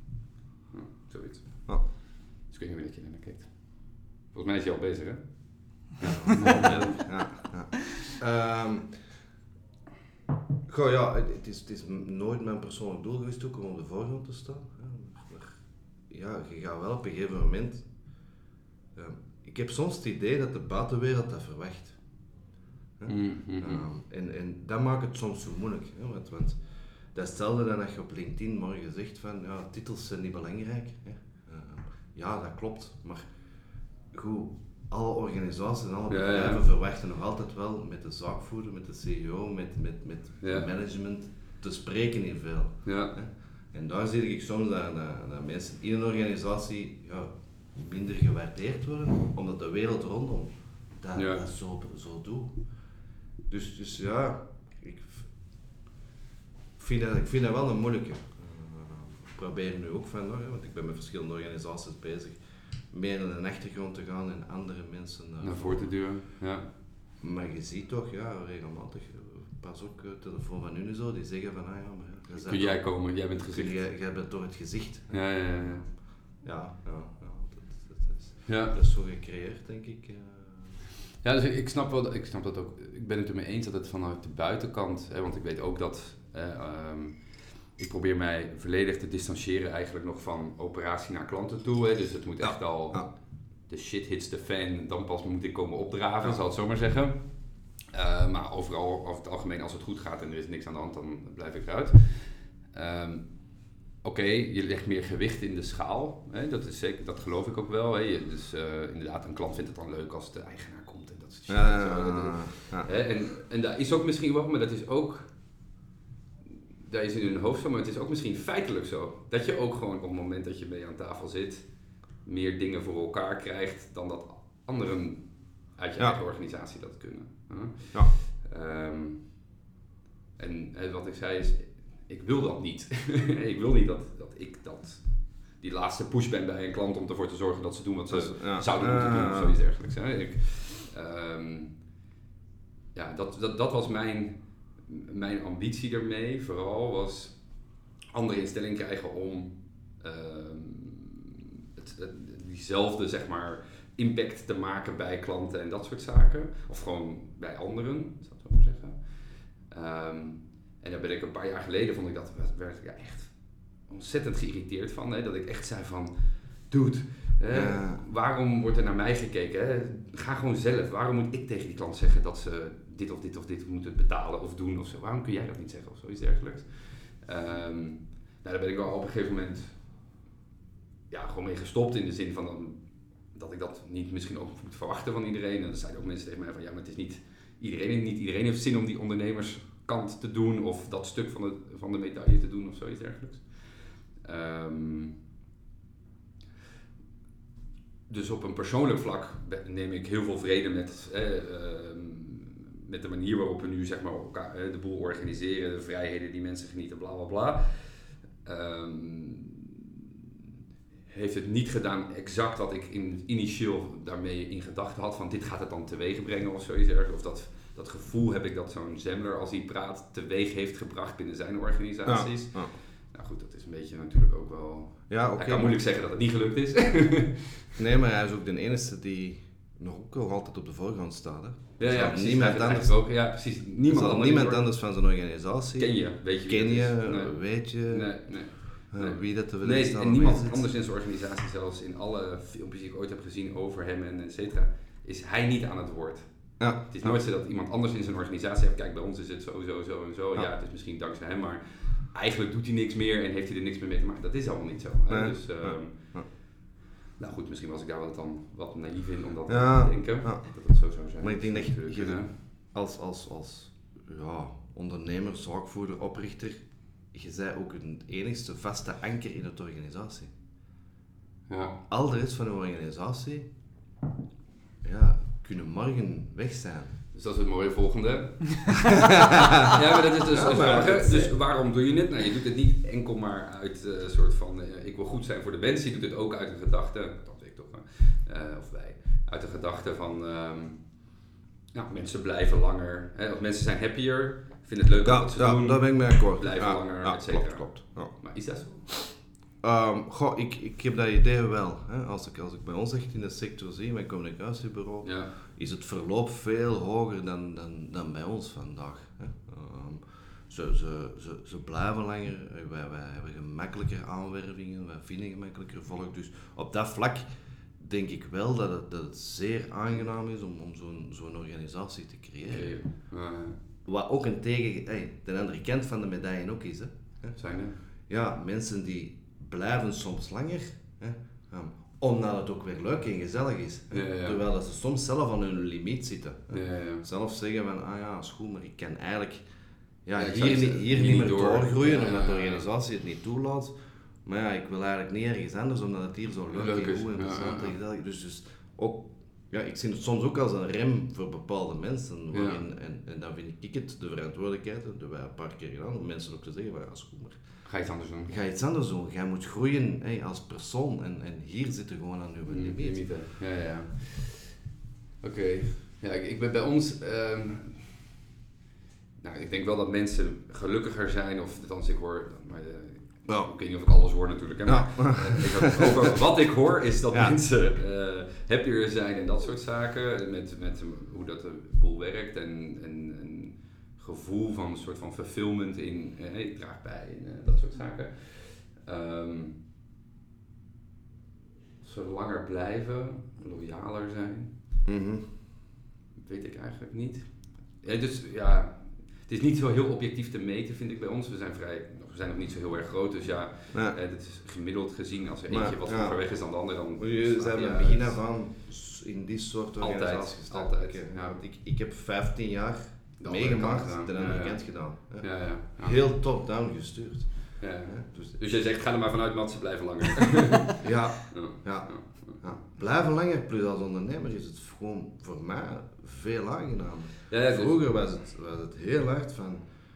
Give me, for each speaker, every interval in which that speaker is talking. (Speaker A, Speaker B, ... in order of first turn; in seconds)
Speaker A: 0.7-7.1, 23.1-23.8, 36.1-36.6, 40.4-40.7, 42.8-43.1, 51.1-51.4, 65.4-66.7, 72.4-73.8, 75.1-75.8, 78.5-78.8, 81.2-115.6, 116.8-129.5, 130.4-141.9, 142.9-179.8, 181.1-195.2, 198.1-209.8, 211.1-227.8, 231.8-234.6, 235.8-256.6, 257.2-262.3, 271.5-271.8, 277.1-279.1, 279.6-291.1, 291.7-298.9, 305.0-305.3, 322.5-323.6, 327.4-327.8, 333.9-334.4, 336.5-337.0, 340.1-342.6, 346.5-347.7, 352.3-352.6, 357.6-358.3, 362.4-364.7, 365.2-368.0, 369.2-389.6, 391.8-394.5, 396.1-408.2, 409.8-411.4, 413.2-416.0, 417.6-422.6, 427.3-427.9
Speaker B: 6.0-9.0, 10.7-17.9, 18.9-22.1, 23.0-33.3, 34.1-52.6, 53.5-55.3, 56.8-65.9, 67.2-80.8, 92.4-93.1, 111.5-112.9, 138.1-139.6, 167.5-168.0, 222.1-222.7, 225.1-225.8, 227.8-233.1, 233.8-240.6, 246.6-247.2, 255.1-256.3, 259.5-270.3, 271.9-273.5, 274.8-277.0, 280.3-281.4, 295.0-298.2, 299.6-322.8, 323.8-327.4, 328.1-339.5, 340.0-357.7, 358.2-363.2, 373.3-373.5, 374.7-376.0, 377.1-377.4, 394.8-395.3, 403.7-404.0, 405.5-406.2, 406.9-418.4, 420.8-429.6